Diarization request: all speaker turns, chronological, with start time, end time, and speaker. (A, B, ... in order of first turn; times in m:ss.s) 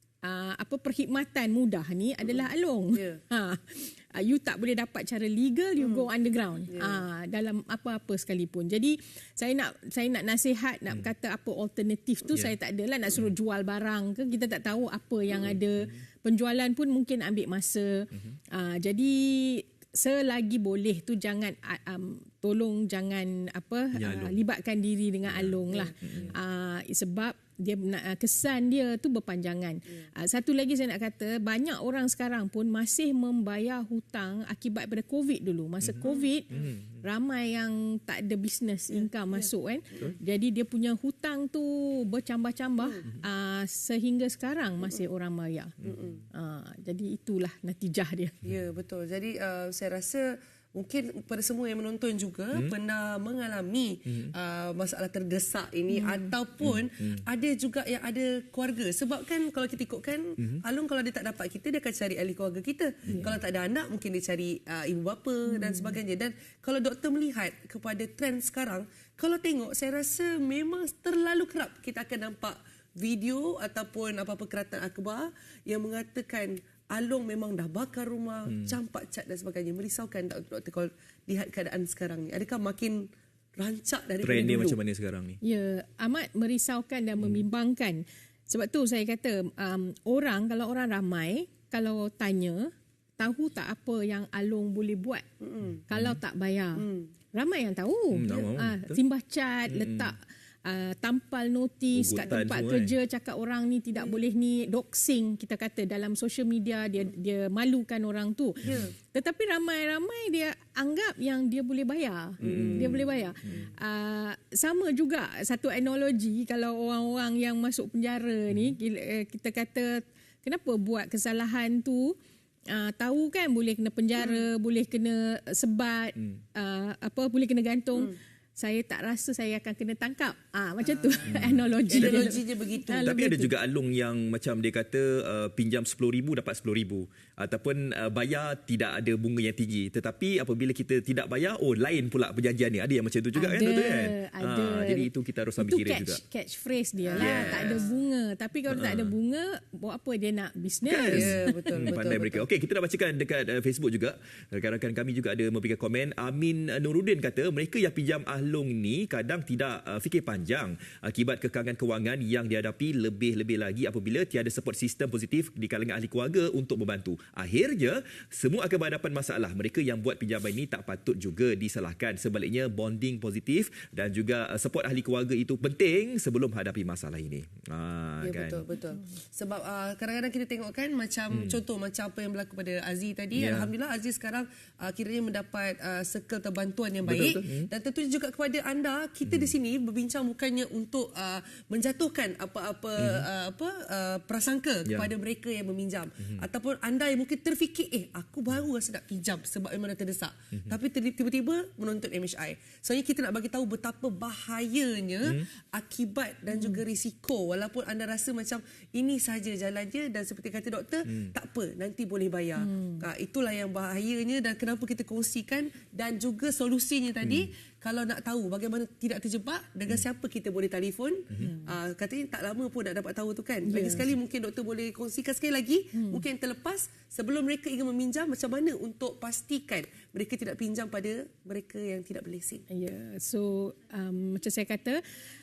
0:00.2-0:45.7 A
0:02.9-0:03.2 B
0:05.8-0:06.1 B
0:06.7-0:07.0 B
0:23.9-0:24.4 C
0:25.3-0:26.3 C
0:25.7-0:26.3 B
0:35.8-0:37.0 C
0:38.9-0:39.5 B
0:45.8-0:46.2 B
0:46.3-0:48.4 A
0:48.4-1:24.8 B
0:55.9-0:56.3 A
0:56.6-0:57.2 C
1:05.5-1:06.0 A
1:24.2-1:25.4 C
1:25.4-1:32.7 A
1:33.2-1:35.2 A
1:35.4-1:35.8 B
1:35.9-2:02.1 A
1:35.9-1:36.2 C
1:36.8-1:37.1 B
1:38.1-1:39.0 C
1:39.7-1:40.1 C
1:41.9-1:42.9 C
1:48.6-1:48.9 B
1:52.4-1:53.6 C
1:52.4-1:53.0 B
2:02.7-2:13.5 A
2:04.2-2:04.4 B
2:11.3-2:12.2 C
2:11.9-2:12.9 B
2:12.9-2:26.2 C
2:23.3-2:31.6 A
2:27.1-2:27.9 B
2:27.2-2:27.8 C
2:28.7-2:29.1 C
2:30.9-2:58.6 C
2:31.1-2:32.5 B
2:58.2-3:52.6 B
3:01.3-3:01.6 C
3:03.3-3:03.7 C
3:07.0-3:07.7 C
3:13.0-3:13.2 C
3:32.6-3:33.0 A
3:41.4-3:41.7 A
3:43.7-3:44.1 A
3:45.9-3:46.2 A
3:52.7-3:55.0 A